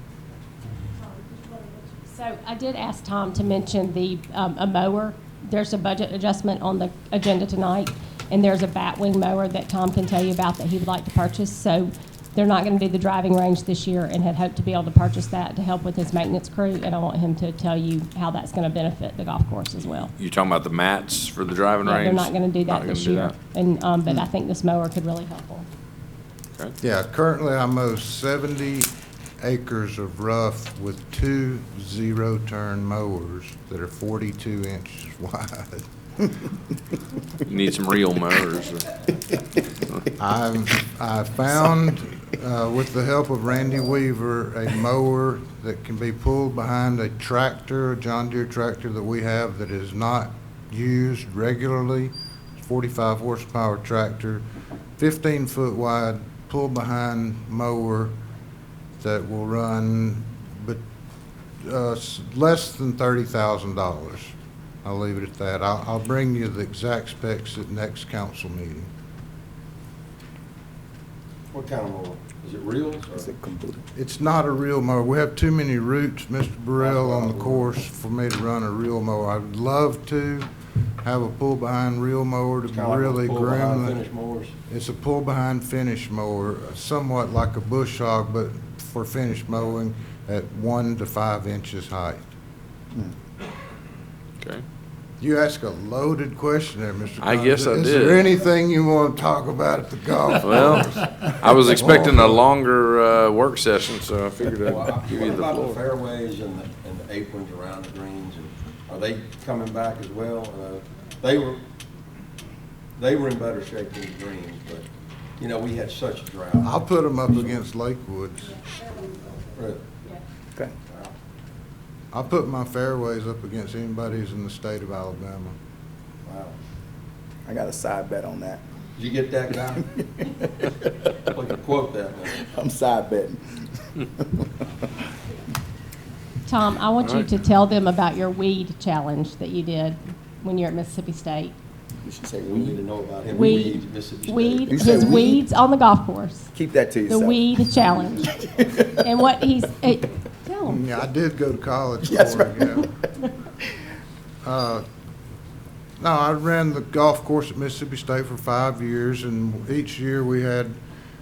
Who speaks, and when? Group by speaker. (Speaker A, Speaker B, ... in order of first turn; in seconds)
Speaker A: 1.3-20.1, 21.8-25.7, 136.5-141.5, 143.3-146.5, 147.1-150.8
Speaker B: 20.2-23.4, 37.4-38.9, 97.2-98.3, 100.4-105.8, 137.0-137.3
Speaker C: 26.8-35.9, 40.2-54.4, 55.0-58.1, 59.0-60.8, 61.6-68.9, 74.0-80.5, 81.0-84.0, 84.7-92.3, 95.2-102.4, 116.6-118.6, 122.1-125.5, 150.6-152.9, 154.4-154.8, 156.0-160.8
Speaker D: 71.5-73.3, 76.8-77.7, 82.7-84.5, 104.4-111.6, 113.0-114.9, 115.4-116.8, 119.5-119.8, 120.9-121.1, 126.2-126.6, 129.0-129.9, 131.3-132.4, 142.4-145.0
Speaker E: 73.1-73.8, 127.5-128.6, 132.4-134.5, 142.0-142.8, 144.7-145.4, 146.5-147.4, 148.4-148.9, 152.0-152.9